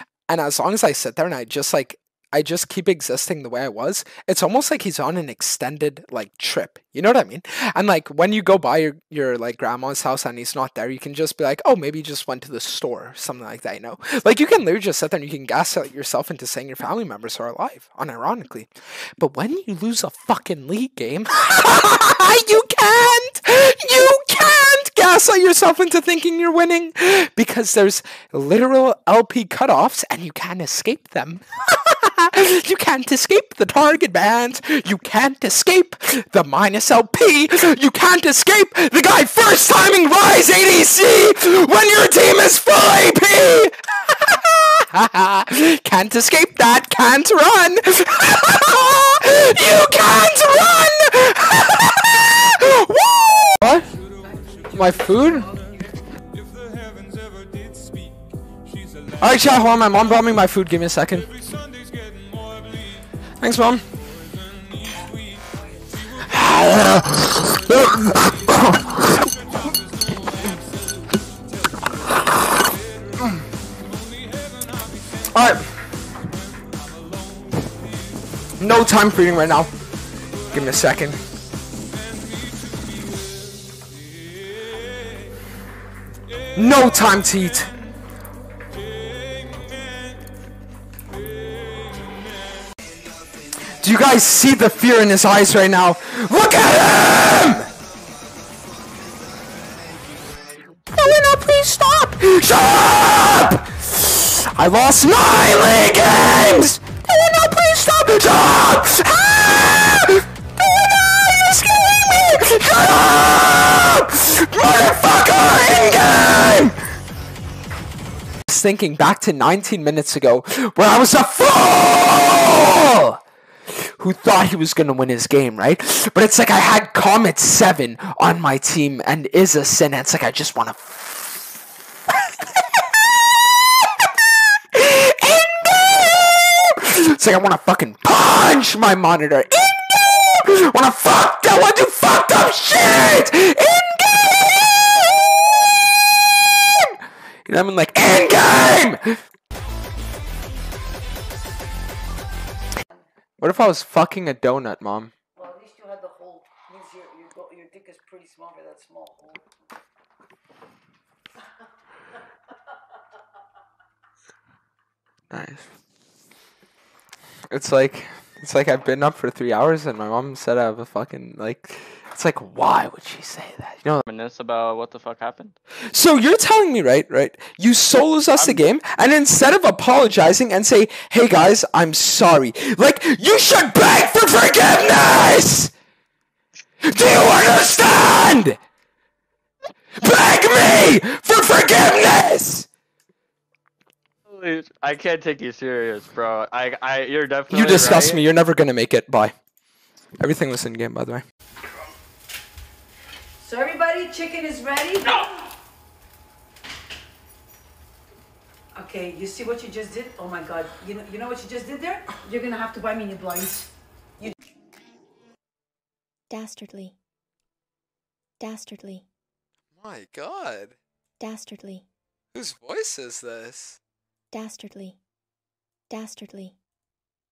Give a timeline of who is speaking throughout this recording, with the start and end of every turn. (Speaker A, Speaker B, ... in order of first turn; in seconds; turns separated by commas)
Speaker A: 0.3-53.9, Speaker B: 54.3-55.7, Speaker A: 54.7-55.5, Speaker A: 59.2-61.3, Speaker A: 63.4-63.8, Speaker A: 66.3-69.2, Speaker A: 72.1-72.5, Speaker A: 75.3-75.7, Speaker A: 78.6-79.7, Speaker A: 80.5-81.2, Speaker A: 86.5-87.7, Speaker A: 93.8-97.7, Speaker A: 100.8-116.8, Speaker A: 118.5-131.5, Speaker A: 134.7-145.6, Speaker A: 147.5-149.2, Speaker A: 153.4-155.1, Speaker B: 155.4-159.5, Speaker A: 165.3-165.7, Speaker A: 167.5-174.0, Speaker C: 174.0-175.6, Speaker A: 175.9-185.7, Speaker A: 186.8-188.6, Speaker A: 190.0-192.7, Speaker C: 194.3-198.2, Speaker A: 197.5-199.3, Speaker A: 200.2-201.2, Speaker B: 203.4-205.3, Speaker B: 208.7-213.7, Speaker D: 216.3-216.9, Speaker D: 218.4-219.1, Speaker A: 219.8-220.8, Speaker D: 221.2-221.8, Speaker A: 222.3-223.8, Speaker D: 224.3-225.0, Speaker D: 225.9-226.6